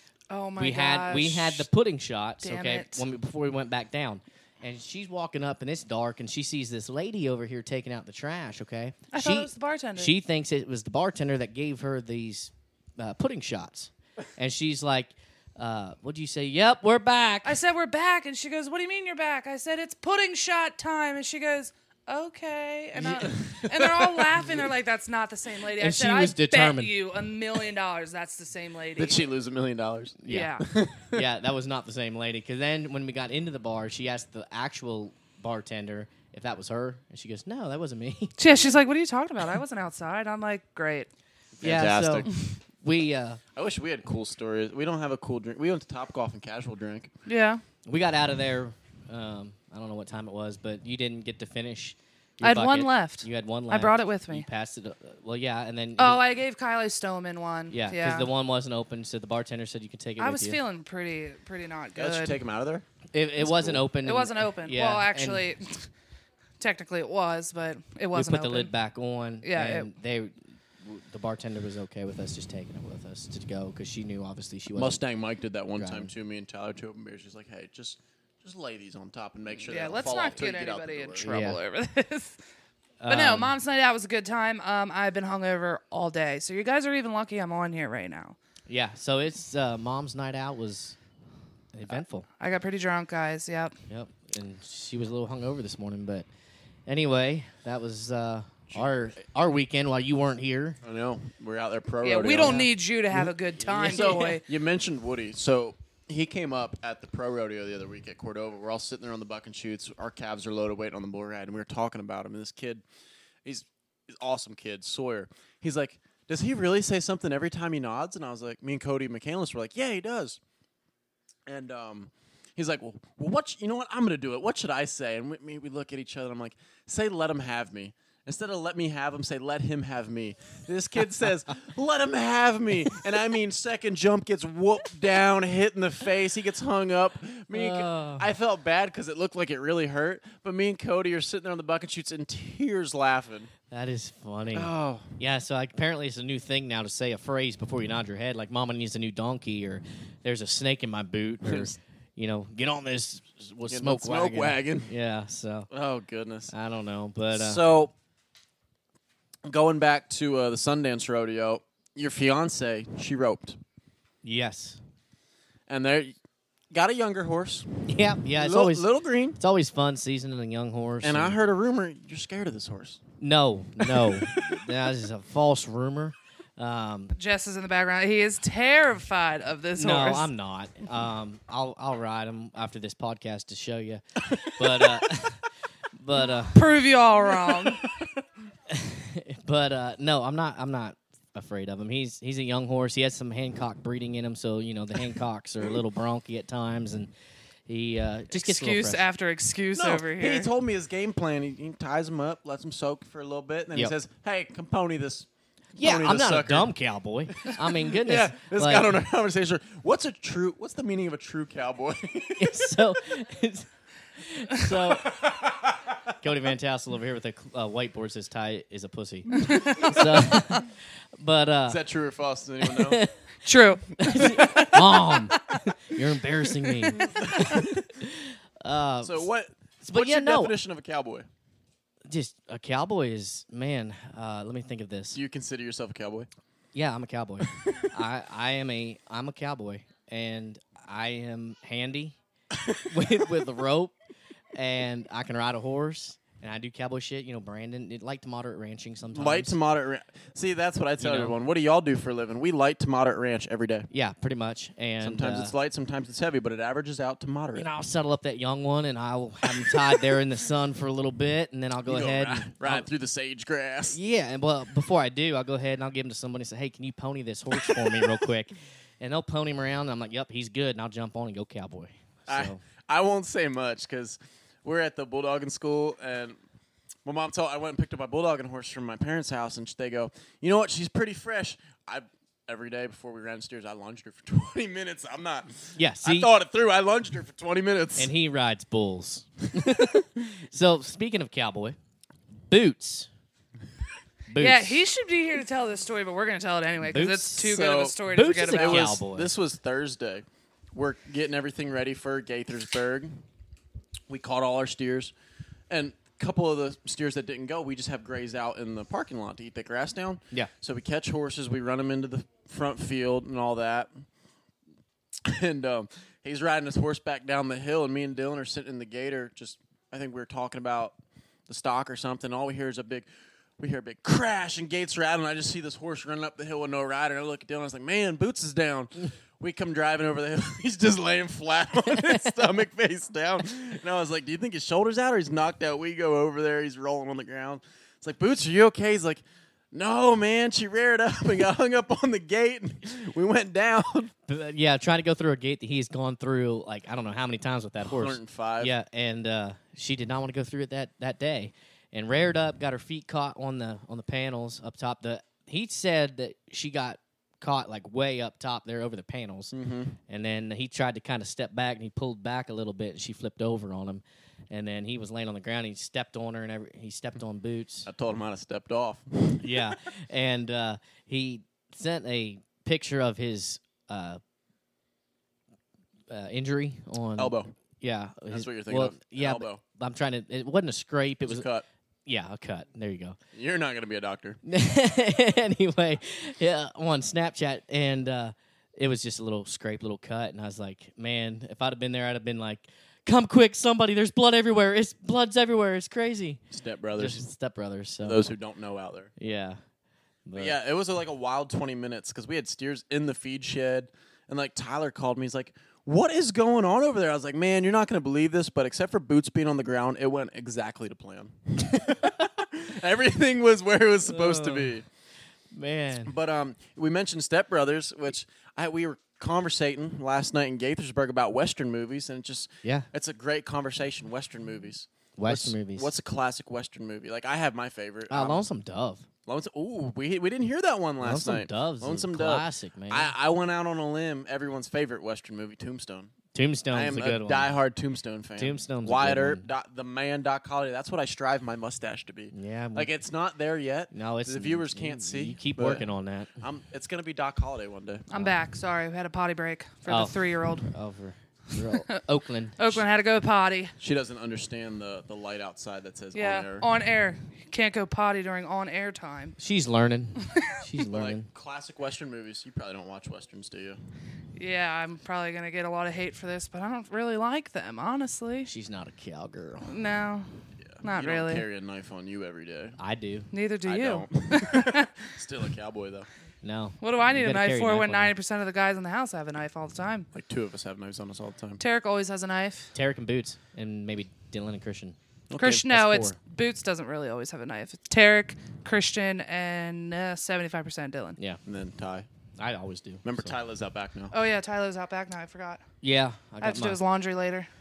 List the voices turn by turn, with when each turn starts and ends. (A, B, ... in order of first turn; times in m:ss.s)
0:00.3-0:01.7 A
0:00.6-0:17.6 B
0:02.4-0:03.1 A
0:09.1-0:10.1 A
0:17.4-0:29.3 A
0:23.0-0:23.3 B
0:23.4-0:24.4 C
0:25.8-0:26.9 B
0:29.0-0:31.3 C
0:30.2-0:30.6 B
0:30.3-0:30.6 A
0:31.1-0:38.4 B
0:38.4-0:41.1 A
0:41.6-0:42.3 C
0:41.6-0:42.3 B
0:42.8-0:43.4 B
0:43.6-0:47.1 C
0:47.3-0:47.6 A
0:47.9-0:56.2 B
0:52.4-0:54.5 A
0:56.0-0:58.3 A
0:57.7-1:00.6 B
1:00.2-1:02.4 A
1:02.0-1:02.9 C
1:03.1-1:05.5 B
1:03.4-1:03.9 C
1:04.0-1:05.9 A
1:06.6-1:08.7 A
1:08.1-1:15.0 B
1:09.4-1:09.9 A
1:14.8-1:21.3 C
1:15.8-1:16.1 B
1:19.7-1:22.4 A
1:21.2-1:21.6 B
1:23.0-1:23.6 B
1:23.1-1:28.4 A
1:28.7-1:31.0 B
1:31.7-1:32.3 B
1:32.4-1:33.8 A
1:33.9-1:36.3 B
1:36.9-1:40.8 B
1:40.8-1:52.8 C
1:42.0-1:44.4 A
1:42.4-1:42.7 B
1:53.4-2:00.4 C
2:01.5-2:23.5 C
2:17.5-2:18.3 B
2:23.7-2:35.7 B
2:24.5-2:25.2 C
2:31.4-2:31.8 C
2:33.7-2:34.9 C
2:35.7-2:36.5 C
2:36.5-2:37.6 B
2:37.3-2:37.9 C
2:39.4-2:43.6 C
2:44.2-2:44.8 B
2:45.7-2:46.2 C
2:46.7-2:49.4 C
2:47.9-2:51.4 B
2:51.0-2:53.0 C
2:53.2-2:57.2 B
2:54.0-2:54.4 C
2:57.2-3:00.3 A
2:59.8-3:05.4 B
3:06.0-3:06.7 B
3:06.5-3:07.8 A
3:08.7-3:17.1 B
3:17.7-3:19.0 B
3:18.3-3:20.5 A
3:19.8-3:26.7 C
3:25.8-3:29.0 B
3:27.4-3:32.6 C
3:32.4-3:35.2 B
3:34.9-3:35.8 C
3:36.2-3:41.8 B
3:39.3-3:40.0 A
3:41.7-3:43.0 C
3:42.6-3:43.1 B
3:43.4-3:45.2 A
3:44.0-3:49.3 B
3:46.6-3:47.2 A
3:47.2-3:47.7 C
3:49.0-3:51.3 C
3:49.8-3:50.5 B
3:52.1-3:55.2 B
3:55.1-3:56.3 C
3:56.7-4:02.2 B
4:02.8-4:03.9 B
4:04.6-4:09.6 B
4:09.1-4:13.9 C
4:11.0-4:11.4 B
4:13.9-4:15.5 B
4:15.0-4:17.7 C
4:17.6-4:22.9 B
4:19.6-4:20.0 C
4:21.9-4:24.0 C
4:23.9-4:32.6 B
4:27.5-4:28.2 C
4:32.3-4:36.4 C
4:37.0-4:48.1 C
4:45.8-4:46.3 B
4:48.0-4:51.8 B
4:52.5-4:53.1 B
4:54.3-4:54.8 B
4:54.4-4:59.0 A
4:56.8-4:59.3 B
4:57.5-4:58.0 C
4:58.5-5:03.2 C
5:04.1-5:05.1 C
5:05.7-5:13.9 C
5:15.2-5:20.9 C
5:21.5-5:23.1 C
5:23.6-5:44.1 C
5:31.9-5:32.3 B
5:44.3-5:59.5 B
5:47.8-5:48.7 C
5:59.5-6:00.0 C
6:00.1-6:07.9 B
6:07.9-6:09.7 C
6:09.4-6:14.2 B
6:16.1-6:21.5 B
6:17.2-6:17.5 C
6:18.3-6:19.6 C
6:21.2-6:21.6 C
6:22.1-6:23.2 B
6:23.3-6:24.4 C
6:24.4-6:36.4 B
6:36.5-6:37.2 C
6:37.0-6:38.3 B
6:38.0-6:39.1 C
6:39.2-6:39.6 B
6:40.3-6:40.6 B
6:40.4-6:54.8 C
6:54.0-6:54.8 B
6:55.5-6:56.1 B
6:56.1-7:08.4 C
7:05.2-7:05.9 B
7:08.1-7:09.1 B
7:09.3-7:16.2 C
7:11.0-7:13.1 B
7:16.3-7:17.6 B
7:16.7-7:25.9 C
7:18.4-7:19.4 B
7:22.3-7:22.9 B
7:23.9-7:26.3 B
7:26.4-7:28.1 C
7:28.1-7:30.7 A
7:28.1-7:28.4 B
7:29.9-7:32.8 B
7:32.6-7:33.7 A
7:33.8-7:36.7 C
7:36.1-7:39.4 A
7:39.4-7:41.2 B
7:40.4-7:40.6 A
7:40.9-7:43.8 C
7:44.4-7:48.5 A
7:48.5-7:49.7 B
7:49.7-7:51.4 A
7:50.6-7:52.8 C
7:52.8-7:53.3 B
7:53.3-7:54.9 A
7:53.7-7:56.1 C
7:56.4-7:58.1 B
7:56.8-8:00.1 A
8:00.1-8:01.6 C
8:01.6-8:02.7 A
8:02.8-8:06.2 B
8:05.3-8:05.6 C
8:05.4-8:11.2 A
8:11.5-8:12.1 C
8:12.4-8:13.4 B
8:13.0-8:14.1 C
8:14.1-8:15.6 A
8:15.8-8:16.8 B
8:16.4-8:17.5 A